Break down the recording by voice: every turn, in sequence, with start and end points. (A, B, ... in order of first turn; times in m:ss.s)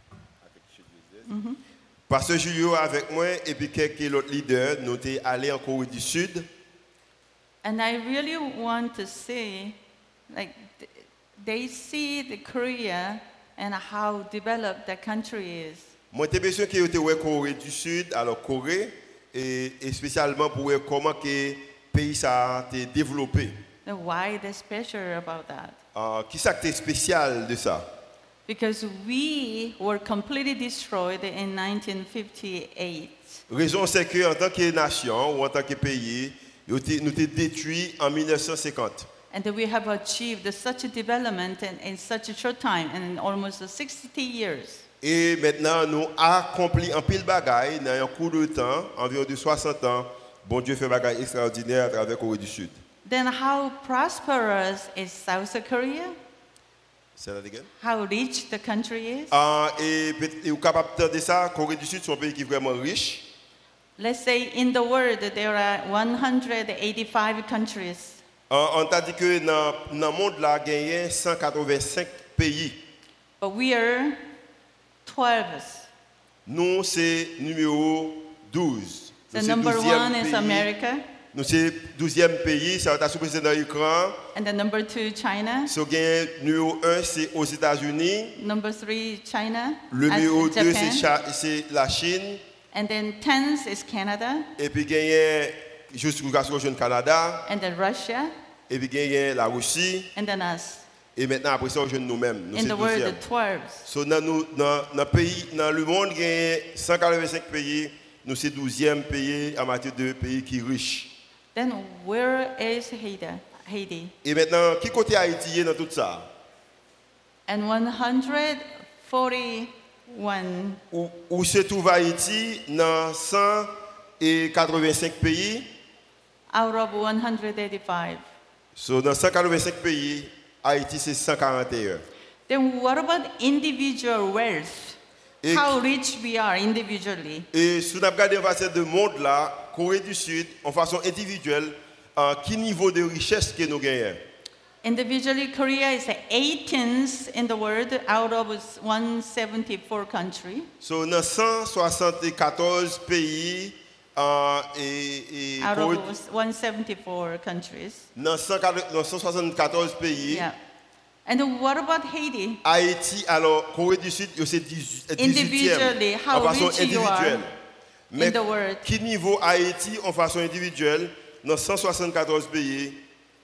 0:00.4-0:01.3 A
0:01.3-0:01.6 B
0:02.1-0:06.5 A
0:07.6-0:09.8 B
0:10.3-0:15.9 B
0:16.1-0:23.6 A
0:23.8-0:25.8 B
0:25.9-0:27.8 A
0:28.5-0:33.4 B
0:33.5-0:39.1 A
0:39.3-0:44.8 B
0:45.0-0:52.8 A
0:53.0-0:56.1 B
0:57.2-0:57.7 A
0:57.8-0:59.3 B
0:59.3-1:03.2 A
1:04.0-1:08.2 B
1:08.5-1:12.8 A
1:13.4-1:14.2 B
1:15.0-1:15.9 B
1:16.5-1:20.7 A
1:19.3-1:21.0 B
1:21.3-1:24.2 A
1:24.3-1:25.7 B
1:25.7-1:28.4 A
1:28.4-1:31.0 B
1:29.9-1:32.4 A
1:32.7-1:34.5 B
1:34.6-1:37.5 A
1:37.5-1:38.3 B
1:38.7-1:40.1 A
1:40.1-1:40.8 B
1:41.2-1:43.2 A
1:42.5-1:43.8 B
1:43.8-1:51.1 A
1:51.5-1:54.1 B
1:54.2-1:56.3 A
1:57.5-2:00.8 B
2:00.9-2:05.7 A
2:06.5-2:08.2 B
2:08.8-2:12.0 A
2:12.5-2:17.5 B
2:15.4-2:15.8 A
2:17.5-2:24.2 A
2:24.8-2:30.7 B
2:30.8-2:36.0 A
2:35.6-2:38.0 B
2:38.2-2:40.4 A
2:40.3-2:40.6 B
2:41.2-2:42.6 B
2:42.6-2:47.5 A
2:45.2-2:47.4 B
2:48.1-2:53.0 A
2:48.2-2:48.8 B